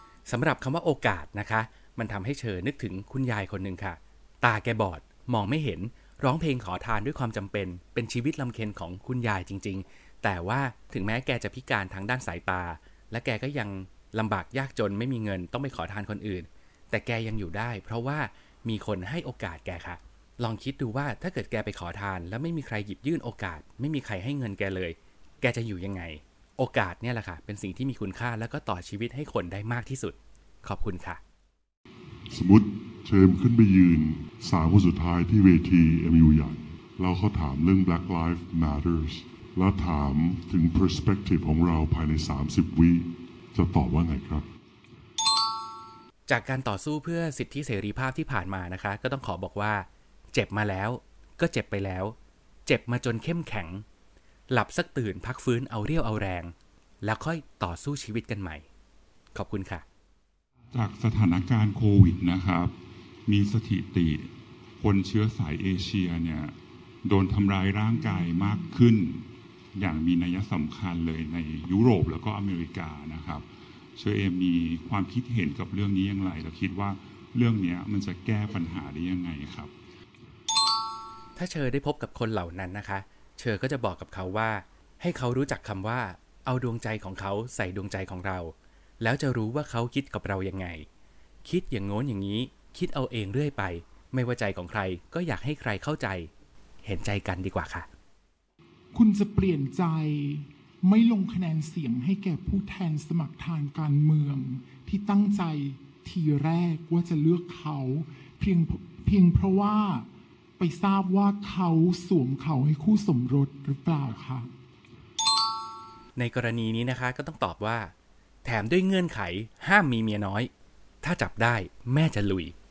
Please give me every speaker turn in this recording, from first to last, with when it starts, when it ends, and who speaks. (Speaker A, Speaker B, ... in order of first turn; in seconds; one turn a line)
Speaker A: 0.3-31.2
Speaker B: 32.3-44.5
Speaker A: 46.3-52.1
Speaker A: 52.7-53.8
Speaker A: 54.5-58.6
Speaker A: 59.3-59.8
Speaker C: 60.7-62.7
Speaker C: 63.2-79.7
Speaker A: 81.3-90.8
Speaker A: 91.4-96.3
Speaker A: 96.8-97.9
Speaker D: 98.9-110.1
Speaker D: 110.6-114.5
Speaker A: 116.2-117.9
Speaker A: 118.4-120.5
Speaker A: 121.0-122.5